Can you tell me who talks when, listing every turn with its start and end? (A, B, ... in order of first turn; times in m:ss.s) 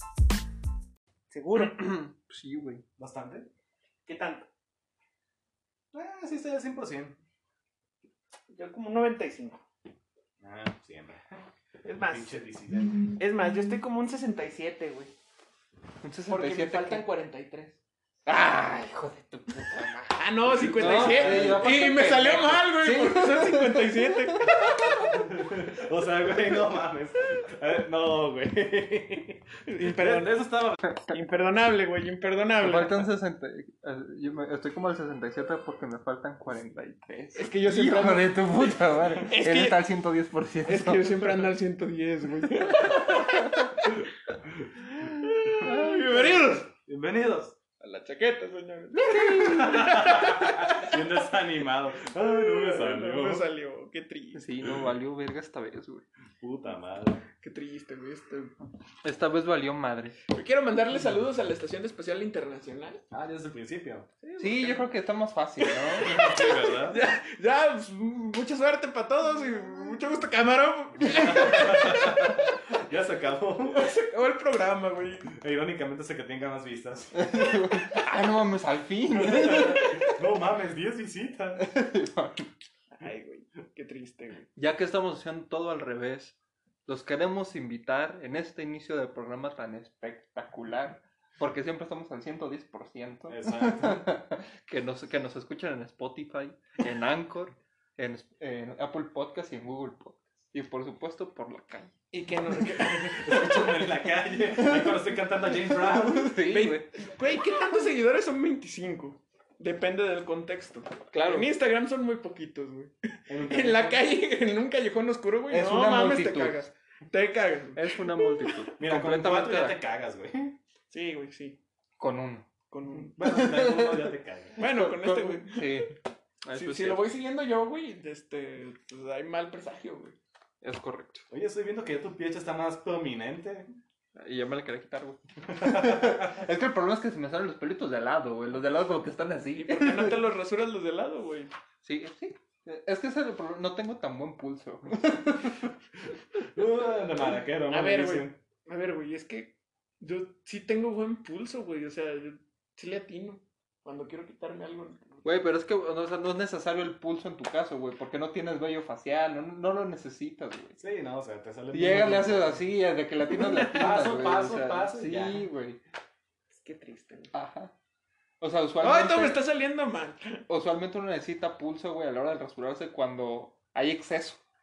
0:01.3-0:01.8 A
0:01.6-0:02.8 B
0:03.0-0:03.5 C
0:04.1-0:04.5 A
0:05.9-0:07.2 C
0:08.5-0:09.6 A
0:10.4-0:11.4 C
0:11.8-0:15.1 A
0:12.0-0:13.1 C
0:16.0-0:17.0 B
0:16.3-0:17.8 A
0:18.3-0:25.2 B
0:20.1-0:24.7 A
0:20.5-0:21.7 C
0:25.1-0:30.8 C
0:29.7-0:30.3 A
0:31.1-0:33.1 A
0:32.6-0:41.3 B
0:37.4-0:39.9 A
0:40.7-0:44.1 A
0:42.8-0:43.7 B
0:44.5-0:44.7 C
0:44.9-0:46.7 A
0:45.6-0:46.6 B
0:46.8-0:47.6 C
0:47.8-0:51.4 A
0:48.9-0:49.9 B
0:49.4-0:53.4 C
0:52.0-0:54.4 A
0:54.4-0:56.0 B
0:56.4-0:57.2 C
0:57.4-0:58.5 A
0:59.0-1:00.2 B
1:00.3-1:03.0 A
1:03.1-1:04.1 C
1:04.2-1:04.9 A
1:04.4-1:06.2 B
1:05.6-1:12.4 A
1:06.0-1:07.0 C
1:11.0-1:13.9 C
1:13.7-1:15.3 A
1:15.3-1:17.2 C
1:17.2-1:20.2 B
1:19.1-1:21.7 C
1:21.6-1:22.5 B
1:22.9-1:24.5 A
1:24.6-1:26.4 B
1:26.9-1:41.9 B
1:33.3-1:34.1 C
1:42.1-1:43.8 A
1:42.7-1:46.4 C
1:46.0-1:46.9 B
1:46.5-1:58.5 A
1:51.1-1:51.5 B
1:53.3-1:54.0 C
1:55.5-1:56.6 B
1:57.8-1:59.8 B
1:58.8-2:00.6 C
2:00.9-2:01.6 A
2:02.0-2:02.5 B
2:02.7-2:03.2 A
2:02.9-2:04.6 C
2:03.2-2:04.0 B
2:04.6-2:05.9 A
2:04.6-2:07.0 B
2:06.5-2:10.2 A
2:10.6-2:11.3 B
2:11.3-2:13.7 C
2:14.2-2:20.1 B
2:15.6-2:16.4 C
2:19.6-2:21.5 A
2:21.8-2:25.7 B
2:26.5-2:28.4 C
2:27.7-2:35.2 A
2:35.2-2:40.8 B
2:40.8-2:42.6 C
2:41.7-2:45.8 B
2:43.3-2:44.0 A
2:43.7-2:45.5 C
2:46.5-2:47.3 A
2:47.3-2:47.7 B
2:48.4-2:49.4 B
2:48.8-2:50.4 A
2:50.5-2:54.4 B